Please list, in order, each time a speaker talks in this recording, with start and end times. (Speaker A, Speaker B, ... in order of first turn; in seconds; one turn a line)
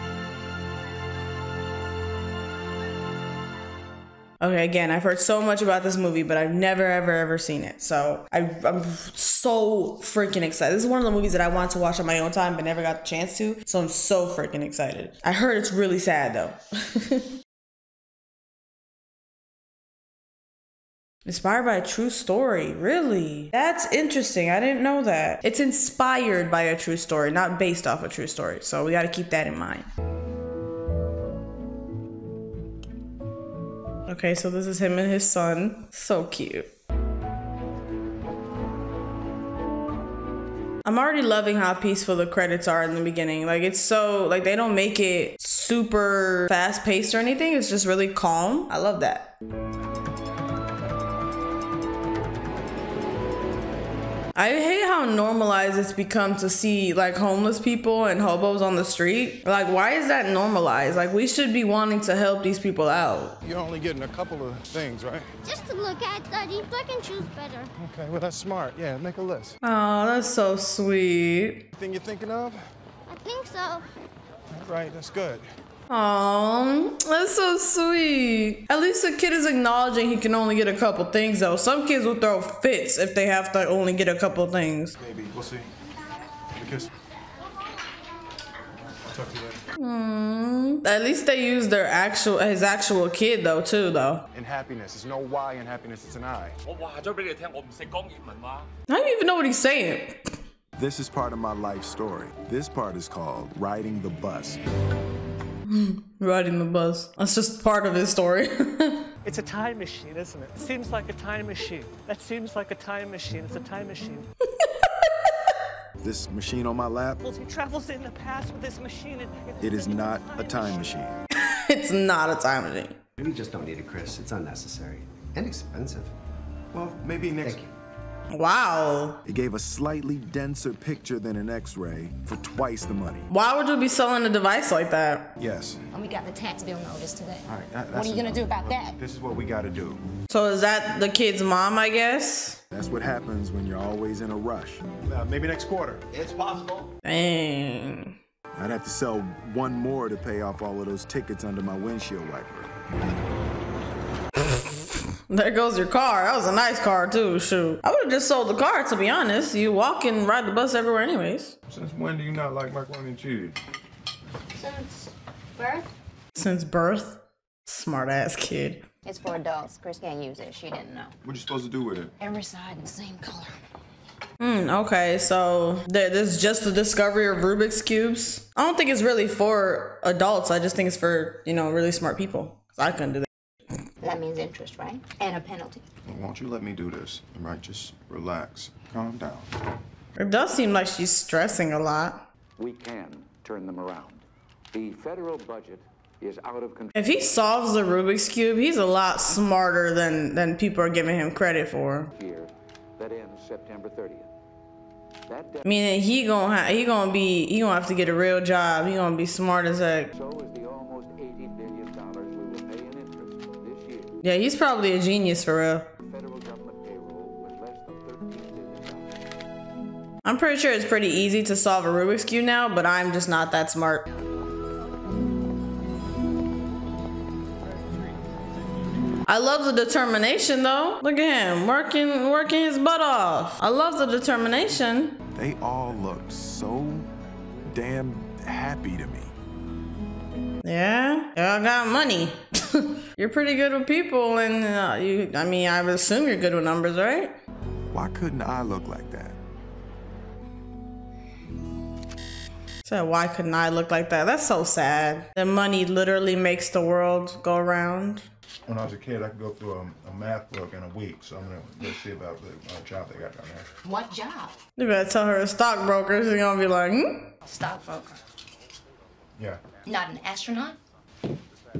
Speaker A: 4.4-17.2
Speaker A: 21.2-29.9
Speaker A: 34.1-36.7
Speaker A: 40.8-49.3
Speaker A: 54.4-63.4
Speaker B: 63.4-65.3
Speaker C: 65.4-67.7
Speaker B: 67.8-69.6
Speaker A: 69.6-71.7
Speaker B: 71.7-72.7
Speaker C: 73.1-73.8
Speaker B: 74.5-75.5
Speaker A: 75.9-84.9
Speaker B: 85.0-85.7
Speaker B: 86.5-86.9
Speaker B: 89.1-89.6
Speaker A: 89.8-94.2
Speaker B: 94.3-96.6
Speaker A: 98.9-100.2
Speaker D: 100.7-104.6
Speaker A: 105.7-109.1
Speaker E: 109.2-114.3
Speaker A: 114.6-115.1
Speaker D: 116.0-117.2
Speaker E: 117.2-120.9
Speaker D: 119.6-121.2
Speaker A: 121.3-123.0
Speaker F: 123.2-126.1
Speaker D: 126.7-127.6
Speaker F: 127.4-127.7
Speaker A: 128.3-129.2
Speaker D: 129.2-133.3
Speaker A: 133.3-135.3
Speaker D: 135.4-135.8
Speaker G: 135.9-139.0
Speaker D: 137.9-138.2
Speaker B: 137.9-140.0
Speaker A: 140.3-142.6
Speaker D: 142.7-144.8
Speaker B: 145.0-146.1
Speaker A: 147.0-148.2
Speaker D: 148.5-152.7
Speaker A: 155.3-161.5
Speaker B: 161.7-163.5
Speaker C: 164.6-165.8
Speaker A: 166.3-168.8
Speaker G: 169.0-171.1
Speaker G: 172.2-173.6
Speaker A: 174.4-183.3
Speaker G: 184.0-185.8
Speaker D: 186.1-189.5
Speaker A: 190.2-192.2
Speaker H: 192.6-196.9
Speaker A: 196.9-202.1
Speaker H: 202.1-204.3
Speaker H: 205.3-205.7
Speaker A: 205.6-210.1
Speaker H: 210.1-214.2
Speaker A: 214.2-215.9
Speaker H: 216.0-219.1
Speaker A: 220.2-224.1
Speaker A: 229.2-235.2
Speaker D: 235.3-237.1
Speaker D: 237.7-239.3
Speaker A: 240.6-247.3
Speaker D: 247.9-249.4
Speaker A: 252.8-258.3
Speaker B: 258.7-263.7
Speaker G: 264.0-264.5
Speaker A: 264.8-267.3
Speaker G: 267.4-268.2
Speaker B: 269.4-269.6
Speaker G: 269.8-270.8